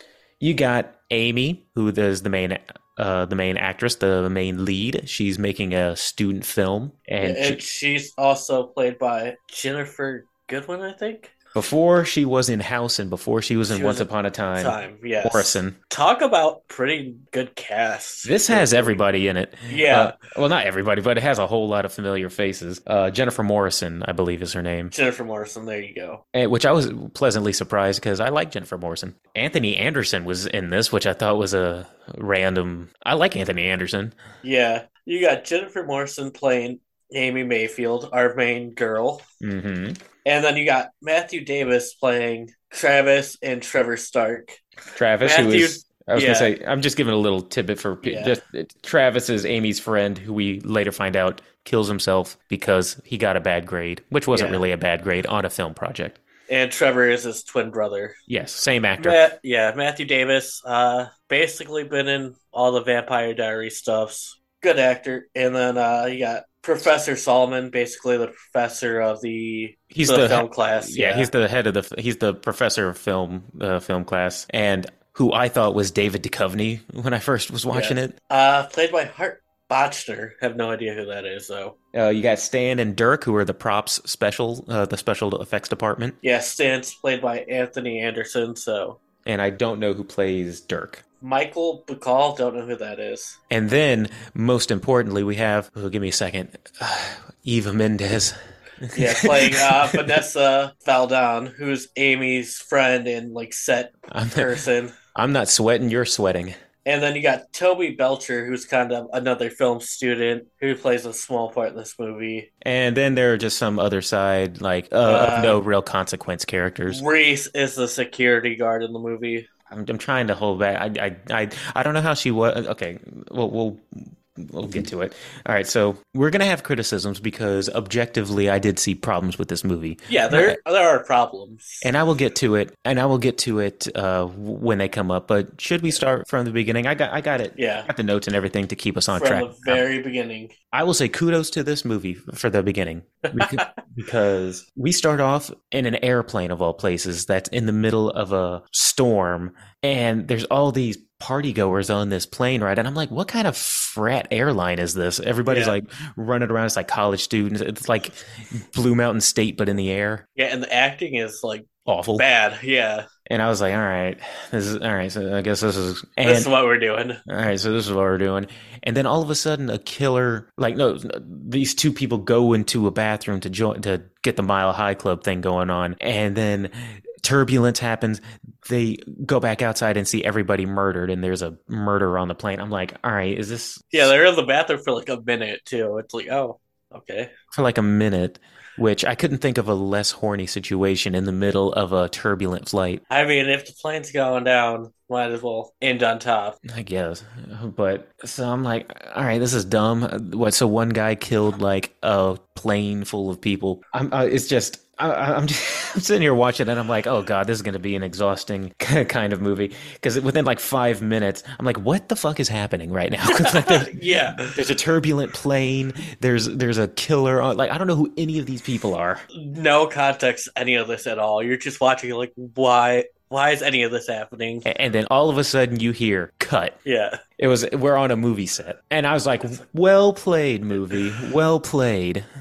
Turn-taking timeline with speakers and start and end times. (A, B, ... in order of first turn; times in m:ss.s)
0:00.4-0:07.6 A
0:07.2-0:11.3 B
0:11.6-0:15.8 A
0:13.7-0:19.0 B
0:18.2-0:24.9 A
0:19.7-0:20.2 B
0:24.9-0:26.2 B
0:26.3-0:34.2 A
0:34.4-0:39.2 B
0:39.4-0:40.0 A
0:40.2-0:44.6 B
0:45.0-0:56.2 A
0:45.2-0:46.5 B
0:48.0-0:48.4 B
0:54.3-0:54.6 B
0:56.5-0:58.2 B
0:58.3-0:59.2 A
0:59.0-1:11.3 B
1:09.9-1:18.2 A
1:17.7-1:21.8 B
1:21.9-1:26.2 A
1:26.2-1:29.0 B
1:29.2-1:31.0 A
1:31.2-1:33.4 B
1:33.5-1:40.2 A
1:38.9-1:45.0 B
1:44.1-1:44.5 A
1:45.2-1:46.6 A
1:46.8-1:52.5 B
1:52.6-1:57.0 A
1:55.0-1:55.6 B
1:56.9-1:59.5 B
1:59.7-2:10.6 A
2:10.1-2:11.9 B
2:11.8-2:19.8 A
2:17.6-2:17.9 B
2:19.1-2:20.5 B
2:20.7-2:40.2 A
2:23.2-2:23.7 B
2:35.5-2:35.8 B
2:40.4-2:43.1 B
2:41.9-2:42.2 A
2:43.3-2:46.5 A
2:46.2-2:47.2 B
2:47.3-3:04.1 A
3:03.9-3:07.3 B
3:07.5-3:13.0 A
3:13.1-3:16.6 B
3:16.6-3:39.2 A
3:33.3-3:34.6 B
3:39.3-3:44.7 B
3:44.6-3:46.8 A
3:46.8-3:47.2 B
3:47.4-3:52.2 A